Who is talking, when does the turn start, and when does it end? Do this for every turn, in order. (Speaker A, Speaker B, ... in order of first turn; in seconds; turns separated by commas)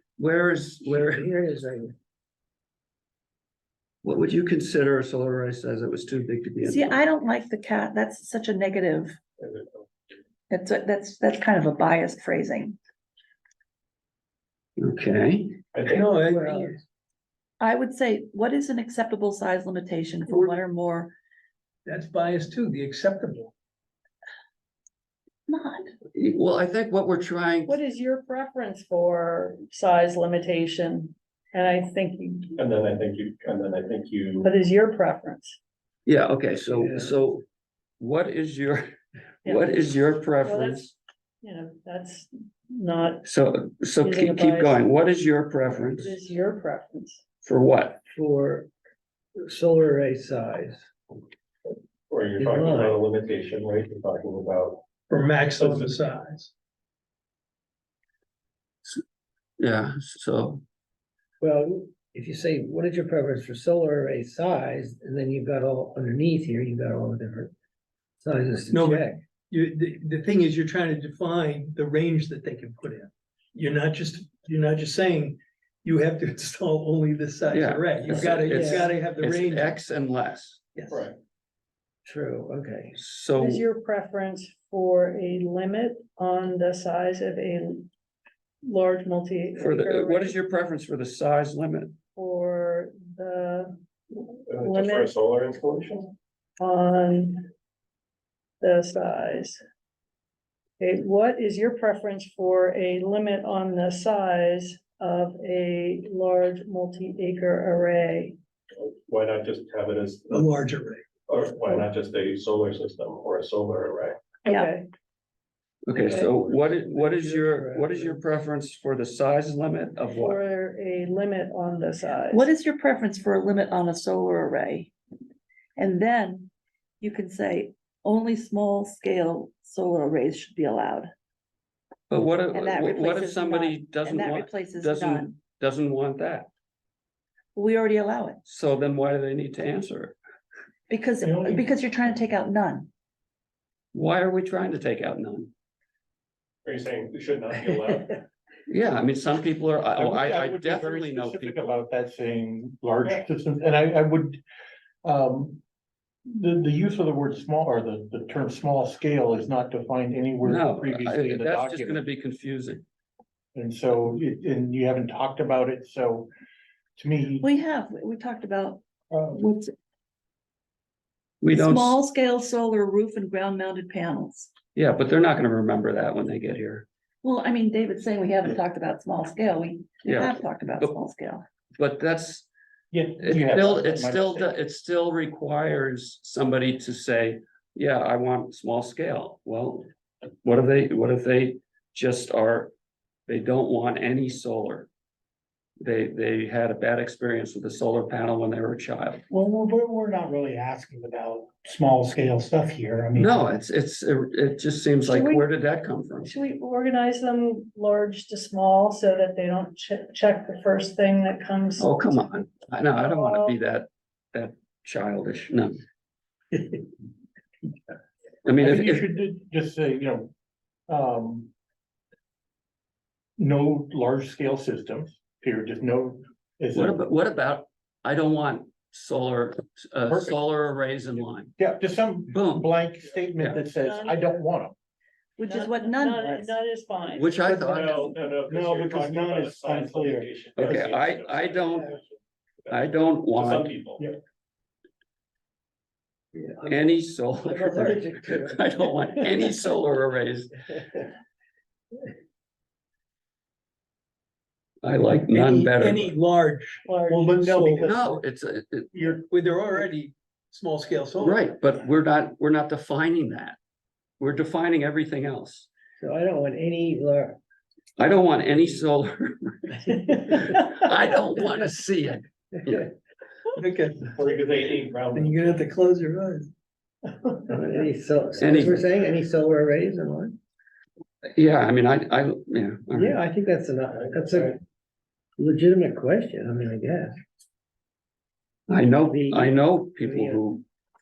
Speaker A: 0.2-1.3, Speaker B: 0.9-1.9, Speaker A: 4.0-7.0, Speaker C: 6.6-9.2, Speaker D: 9.4-9.8, Speaker C: 10.5-12.8, Speaker A: 14.8-15.6, Speaker D: 15.7-16.1, Speaker E: 15.9-16.8, Speaker B: 16.2-16.8, Speaker C: 17.6-21.1, Speaker E: 21.9-23.5, Speaker C: 25.5-25.9, Speaker A: 26.1-27.8, Speaker F: 27.6-32.5, Speaker D: 32.6-34.5, Speaker F: 34.4-35.6, Speaker A: 36.0-37.4, Speaker B: 36.7-37.1, Speaker A: 38.0-38.9, Speaker A: 39.4-40.9, Speaker F: 39.4-39.8, Speaker F: 40.4-43.3, Speaker A: 43.2-46.2, Speaker F: 44.0-44.8, Speaker F: 45.9-47.2, Speaker A: 47.4-48.0, Speaker B: 48.1-48.7, Speaker B: 49.4-50.9, Speaker D: 52.1-54.8, Speaker B: 52.4-53.0, Speaker E: 55.1-56.5, Speaker D: 55.5-56.0, Speaker A: 59.6-60.6, Speaker B: 61.4-67.5, Speaker B: 68.2-69.2, Speaker E: 68.7-79.8, Speaker A: 77.5-80.7, Speaker B: 78.5-78.9, Speaker E: 80.8-81.0, Speaker D: 80.9-81.2, Speaker B: 82.0-83.0, Speaker A: 83.0-83.7, Speaker F: 83.4-87.9, Speaker F: 88.6-90.3, Speaker A: 89.6-92.0, Speaker F: 92.1-93.7, Speaker D: 94.5-96.1, Speaker F: 94.6-95.1, Speaker F: 96.6-97.5, Speaker F: 98.6-99.6, Speaker F: 100.8-108.3, Speaker D: 108.8-110.5, Speaker E: 110.3-111.0, Speaker D: 111.3-114.2, Speaker F: 114.4-114.9, Speaker C: 114.5-114.7, Speaker A: 115.8-120.4, Speaker D: 115.9-117.0, Speaker B: 117.0-118.2, Speaker F: 120.1-122.5, Speaker C: 122.3-124.9, Speaker C: 125.8-131.1, Speaker A: 132.1-136.5, Speaker C: 132.5-135.3, Speaker C: 137.5-138.4, Speaker A: 138.4-140.2, Speaker C: 140.9-142.9, Speaker G: 141.2-141.7, Speaker A: 143.9-145.5, Speaker D: 146.6-148.2, Speaker A: 148.7-151.8, Speaker G: 149.9-154.4, Speaker G: 155.0-155.6, Speaker G: 156.2-162.0, Speaker A: 160.4-162.8, Speaker G: 163.5-166.3, Speaker G: 167.0-167.5, Speaker C: 167.4-168.8, Speaker G: 169.1-169.4, Speaker C: 169.3-169.7, Speaker A: 171.4-172.0, Speaker C: 171.5-174.5, Speaker A: 174.7-176.9, Speaker C: 177.2-181.4, Speaker A: 180.0-181.0, Speaker A: 181.8-182.5, Speaker G: 182.9-184.5, Speaker A: 183.2-189.9, Speaker A: 190.4-192.7, Speaker A: 193.3-194.9, Speaker A: 195.8-199.2, Speaker H: 199.3-203.4, Speaker G: 200.4-202.9, Speaker A: 203.1-206.3, Speaker F: 205.0-205.5, Speaker F: 206.2-211.9, Speaker A: 211.8-215.8, Speaker F: 212.9-213.6, Speaker A: 218.4-219.1, Speaker G: 218.6-220.3, Speaker G: 220.9-221.5, Speaker G: 223.4-227.0, Speaker A: 226.7-231.5, Speaker G: 230.1-230.4, Speaker G: 231.6-234.7, Speaker A: 232.3-232.7, Speaker F: 233.5-234.4, Speaker C: 235.4-236.6, Speaker F: 235.4-237.4, Speaker A: 237.1-238.2, Speaker D: 237.5-244.0, Speaker G: 238.4-240.3, Speaker A: 240.5-241.9, Speaker A: 242.7-243.8, Speaker B: 246.3-246.8, Speaker A: 246.7-250.6, Speaker B: 247.4-248.6, Speaker A: 254.8-256.1, Speaker E: 255.3-258.0, Speaker F: 256.9-257.6, Speaker G: 257.1-258.2, Speaker A: 257.8-259.2, Speaker G: 258.9-259.2, Speaker E: 259.3-261.5, Speaker A: 261.2-263.6, Speaker A: 264.2-265.7, Speaker B: 266.0-267.4, Speaker A: 268.0-272.9, Speaker E: 273.6-274.1, Speaker D: 274.1-275.7, Speaker E: 275.1-276.5, Speaker B: 277.5-280.4, Speaker A: 278.4-278.8, Speaker A: 281.3-283.2, Speaker B: 282.9-284.6, Speaker B: 285.4-287.1, Speaker A: 288.7-290.6, Speaker B: 289.1-290.5